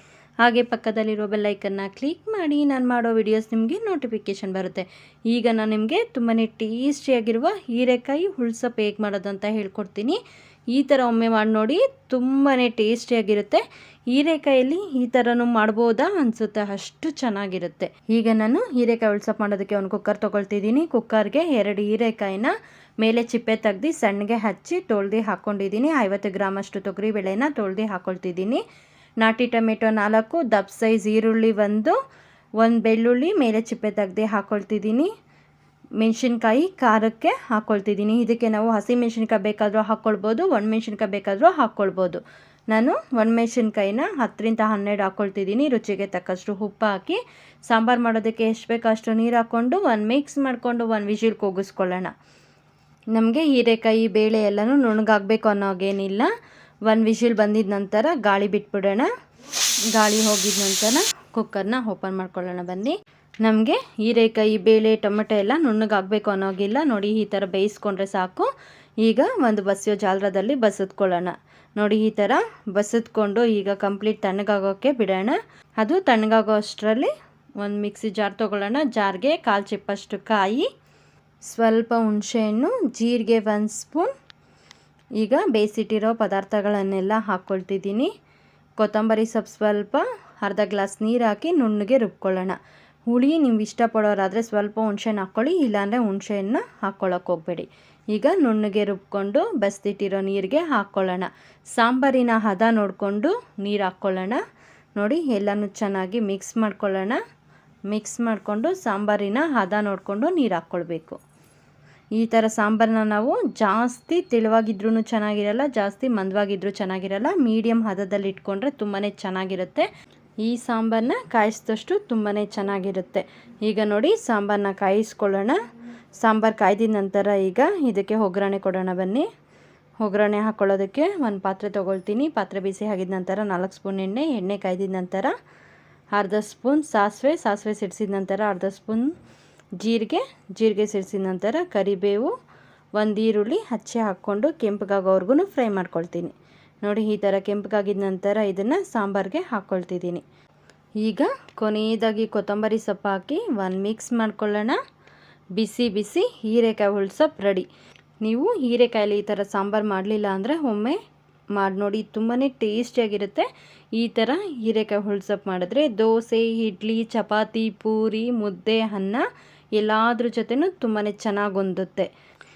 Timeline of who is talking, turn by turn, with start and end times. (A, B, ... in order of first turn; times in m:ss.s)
0:00.4-0:10.2 A
0:10.7-0:28.6 A
0:29.2-0:32.0 A
0:32.6-0:35.1 A
0:36.0-0:52.1 A
0:53.1-0:56.3 A
0:56.8-0:59.1 A
0:59.9-1:08.5 A
1:09.0-1:20.7 A
1:21.4-1:24.1 A
1:25.2-1:28.1 A
1:28.8-1:32.6 A
1:33.1-1:44.4 A
1:45.0-1:47.2 A
1:47.9-1:51.2 A
1:52.2-1:59.9 A
2:00.4-2:05.6 A
2:06.2-2:09.3 A
2:10.0-2:15.3 A
2:16.1-2:19.1 A
2:19.8-2:22.3 A
2:23.0-2:30.2 A
2:31.0-2:34.8 A
2:35.6-2:37.7 A
2:38.2-2:41.0 A
2:41.6-2:52.1 A